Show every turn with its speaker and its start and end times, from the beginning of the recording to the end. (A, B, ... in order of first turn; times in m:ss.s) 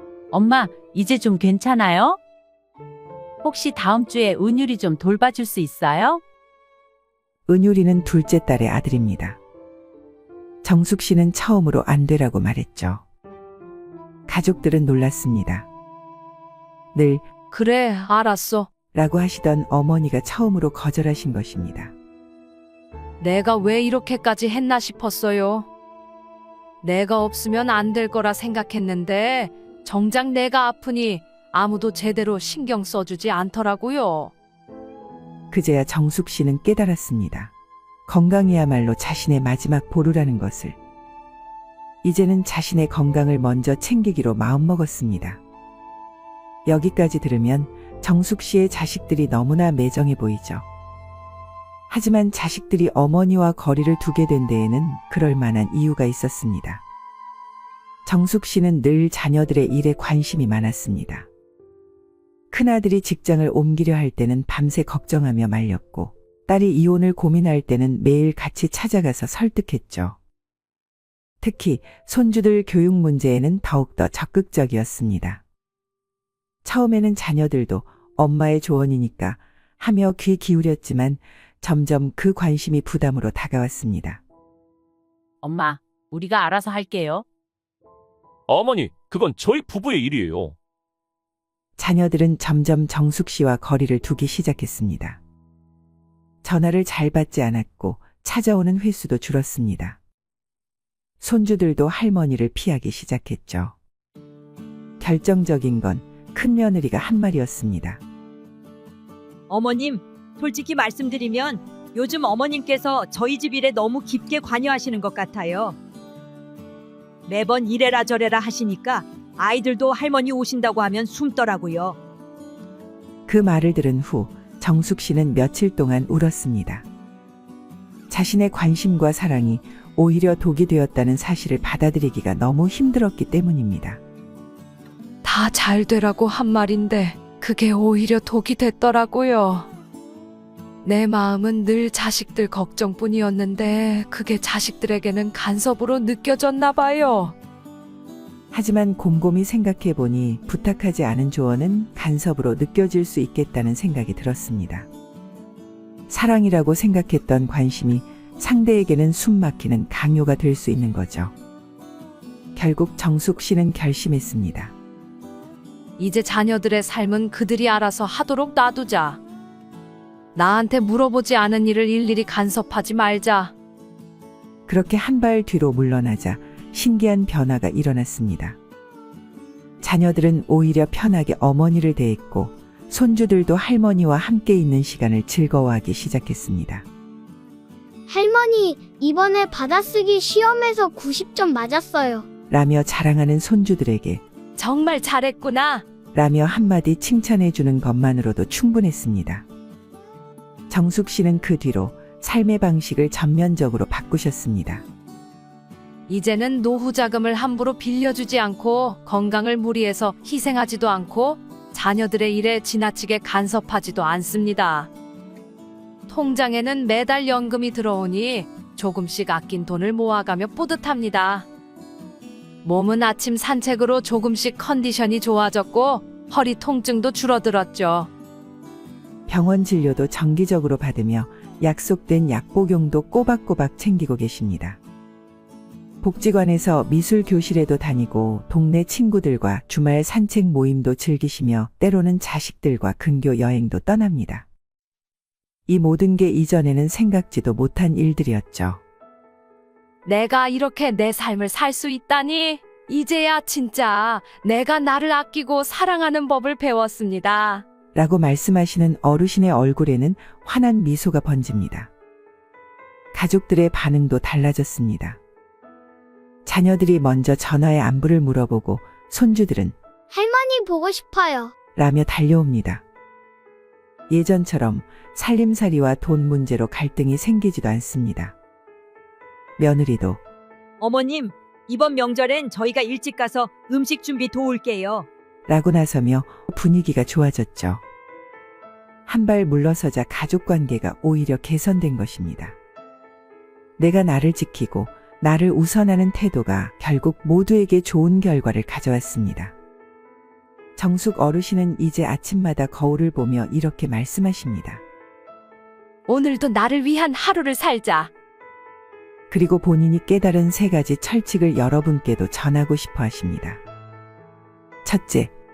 0:00.3-0:02.2 A
0:03.4-0:06.2 A
0:07.5-0:09.4 B
0:10.6-0:13.0 B
0:14.3-0:15.7 B
0:16.9-0:17.3 B
0:17.5-0:18.7 C
0:18.9-0:21.9 B
0:23.2-0:25.7 C
0:26.8-0:34.3 C
0:35.5-0:37.5 B
0:38.1-0:40.8 B
0:42.0-0:45.4 B
0:46.7-0:50.6 B
0:51.9-0:56.8 B
0:58.1-1:01.3 B
1:02.5-1:10.2 B
1:11.4-1:15.4 B
1:16.6-1:24.2 B
1:25.4-1:27.2 A
1:28.5-1:30.6 D
1:31.8-1:35.2 B
1:36.4-1:40.0 B
1:41.2-1:43.8 B
1:45.0-1:48.0 B
1:49.5-1:55.8 E
1:57.3-2:02.0 E
2:03.3-2:06.9 B
2:08.1-2:14.0 B
2:15.2-2:19.7 C
2:20.8-2:27.4 C
2:28.5-2:34.9 B
2:36.1-2:41.3 B
2:42.6-2:44.7 B
2:46.0-2:49.2 C
2:50.3-2:53.5 C
2:54.7-2:58.6 B
2:59.8-3:06.9 B
3:08.1-3:12.3 F
3:12.5-3:14.2 B
3:14.6-3:15.9 C
3:16.1-3:19.5 B
3:20.7-3:24.8 B
3:26.1-3:34.9 C
3:36.1-3:41.5 C
3:42.6-3:48.1 C
3:49.3-3:54.8 B
3:56.0-4:04.5 B
4:05.7-4:08.8 B
4:10.0-4:17.6 C
4:17.9-4:21.9 B
4:23.1-4:25.2 B
4:26.5-4:29.8 B
4:30.1-4:31.5 F
4:31.8-4:32.8 B
4:34.1-4:38.4 B
4:39.6-4:40.2 B
4:40.8-4:45.1 E
4:45.5-4:47.8 B
4:49.1-4:52.6 B
4:53.8-4:59.6 B
5:00.8-5:04.8 B
5:06.1-5:08.1 C
5:09.3-5:13.6 B
5:14.8-5:15.3 B